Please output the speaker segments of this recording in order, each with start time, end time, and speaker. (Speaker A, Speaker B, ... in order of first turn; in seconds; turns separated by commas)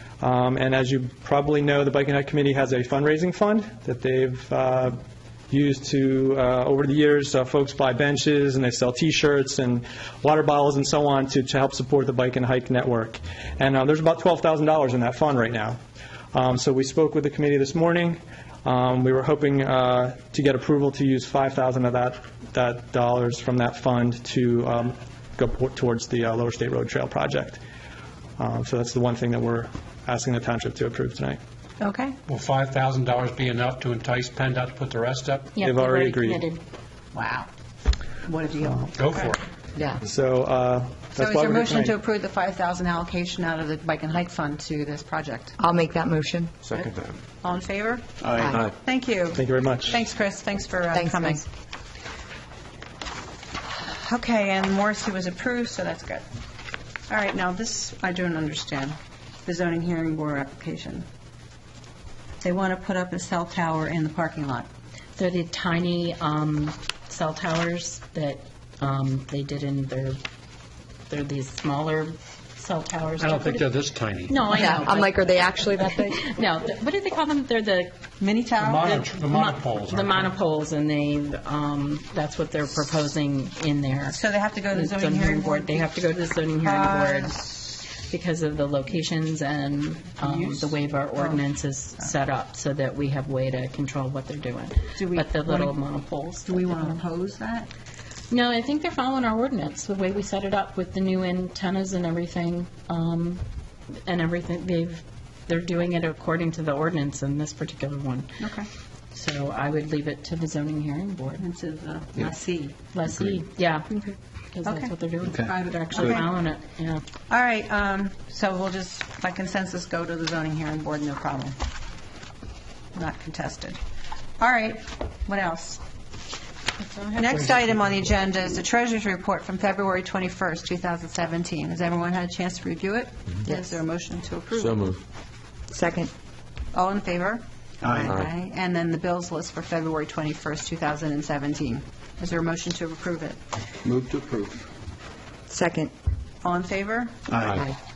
Speaker A: 0.2-15.8, Speaker A: 16.3-27.6, Speaker A: 28.4-31.4, Speaker B: 31.8-32.2, Speaker C: 32.3-35.5, Speaker D: 35.5-36.6, Speaker A: 35.6-36.5, Speaker B: 37.1-37.5, Speaker B: 38.2-39.4, Speaker C: 39.0-39.4, Speaker E: 39.8-40.0, Speaker A: 40.0-42.0, Speaker B: 41.2-45.6, Speaker E: 45.6-46.6, Speaker B: 47.4-51.5, Speaker F: 48.2-48.6, Speaker A: 49.4-50.0, Speaker E: 51.0-51.4, Speaker B: 53.7-56.2, Speaker B: 57.1-61.1, Speaker B: 62.4-64.7, Speaker D: 65.2-70.2, Speaker D: 71.1-73.7, Speaker C: 73.2-74.6, Speaker D: 74.3-78.0, Speaker E: 74.6-76.3, Speaker B: 78.2-78.9, Speaker C: 78.6-80.3, Speaker D: 78.8-84.2, Speaker B: 84.1-87.5, Speaker D: 84.7-97.0, Speaker B: 90.2-91.4, Speaker B: 95.0-95.8, Speaker B: 96.5-97.7, Speaker D: 98.3-103.4, Speaker D: 104.0-108.4, Speaker B: 108.4-108.7, Speaker D: 109.1-111.4, Speaker B: 111.4-112.8, Speaker D: 112.9-117.0, Speaker B: 114.7-116.3, Speaker F: 115.3-115.6, Speaker B: 117.3-121.6, Speaker B: 122.9-123.8, Speaker B: 124.4-125.8, Speaker B: 127.2-134.9, Speaker E: 135.7-136.1, Speaker B: 136.7-143.4, Speaker F: 137.8-138.1, Speaker F: 143.8-144.7, Speaker E: 145.5-145.9, Speaker B: 146.4-147.2, Speaker F: 147.3-147.7